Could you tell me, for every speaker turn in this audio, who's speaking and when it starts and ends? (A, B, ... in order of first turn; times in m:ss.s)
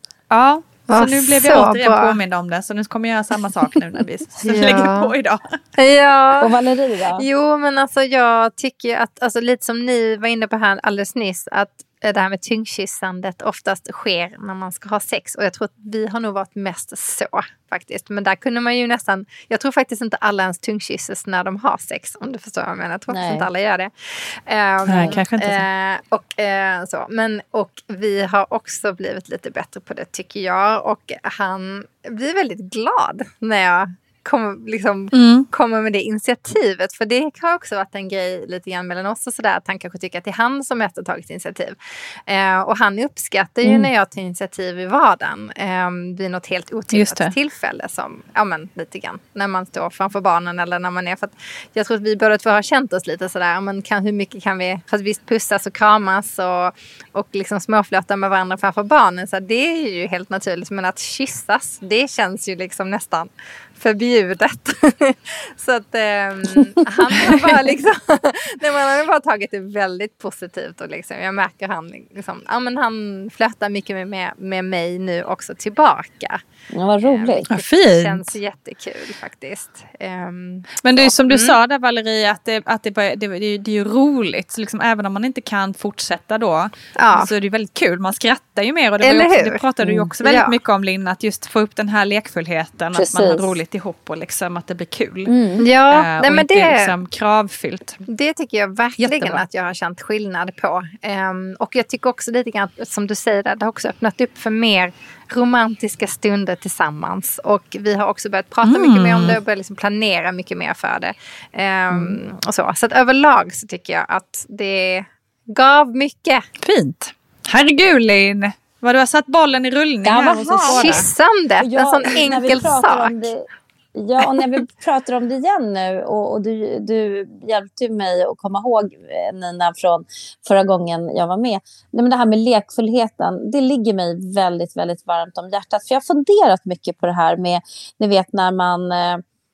0:00.3-0:05.6 A
0:00.9-0:02.2 B
0:04.4-0:05.1 B
0:05.8-0:06.5 B
0:06.4-0:07.2 C
0:07.2-1:16.4 B
0:23.1-0:23.5 C
0:24.9-0:25.6 A
0:35.1-0:35.5 A
0:46.9-0:47.3 A
1:16.7-1:17.5 C
1:17.0-1:21.6 B
1:17.5-1:18.4 A
1:20.8-1:35.3 A
1:27.0-1:27.3 B
1:29.0-1:29.6 B
1:29.8-1:30.1 C
1:30.2-1:30.6 B
1:32.9-1:33.6 C
1:35.3-1:35.6 C
1:35.6-1:36.9 B
1:35.9-1:38.0 A
1:38.1-1:56.5 B
1:39.0-1:39.4 A
1:48.6-1:49.4 A
1:51.9-1:52.2 C
1:56.6-2:01.1 A
2:00.0-2:01.0 C
2:00.8-2:03.3 B
2:01.6-2:19.2 C